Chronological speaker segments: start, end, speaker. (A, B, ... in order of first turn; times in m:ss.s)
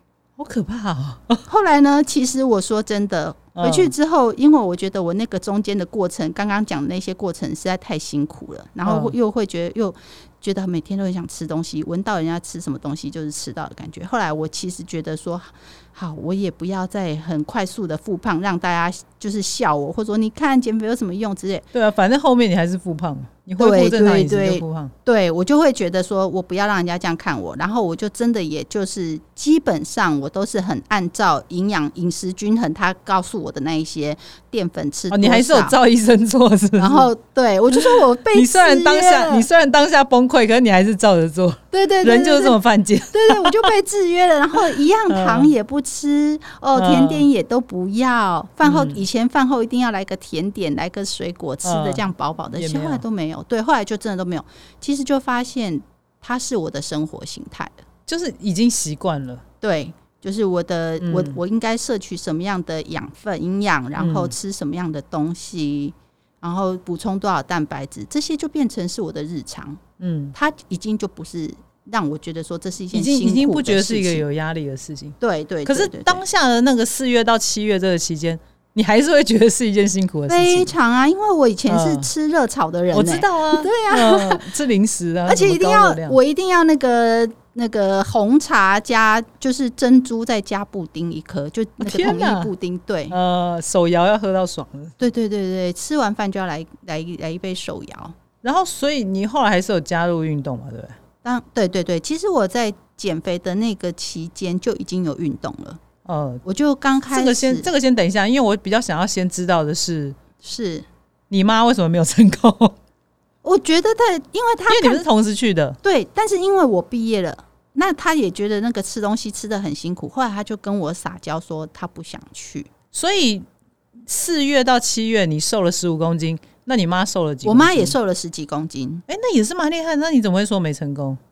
0:00.4-0:01.4 A
0:01.5-0:21.6 B
0:03.5-0:03.9 A
0:08.8-0:09.1 A
0:21.7-0:24.9 A
0:23.6-0:35.7 B
0:35.1-0:37.1 A
0:36.8-0:39.5 B
0:37.7-0:43.7 A
0:41.7-0:42.6 B
0:43.1-0:57.8 B
0:45.1-0:45.5 A
0:46.8-0:47.3 A
0:48.6-0:49.0 A
0:51.6-0:52.0 A
0:52.6-0:53.0 A
0:58.1-0:59.4 A
0:59.6-1:09.8 B
1:01.0-1:01.4 A
1:04.0-1:04.3 A
1:10.0-1:10.3 A
1:10.3-1:14.2 B
1:12.9-1:20.7 A
1:15.2-1:16.2 B
1:20.3-1:24.5 B
1:21.7-1:22.1 A
1:22.9-1:26.2 A
1:25.2-1:33.1 B
1:31.8-1:32.5 A
1:33.1-1:35.0 A
1:35.0-1:38.2 B
1:38.4-1:41.0 A
1:41.2-1:45.8 B
1:46.0-1:46.4 A
1:46.4-1:47.7 B
1:47.1-1:50.2 A
1:50.4-1:50.9 B
1:51.3-1:52.8 A
1:53.4-1:55.0 B
1:54.7-1:55.8 A
1:55.8-2:02.7 B
2:02.9-2:03.4 A
2:04.0-2:08.0 A
2:07.4-2:09.0 B
2:09.1-2:11.2 A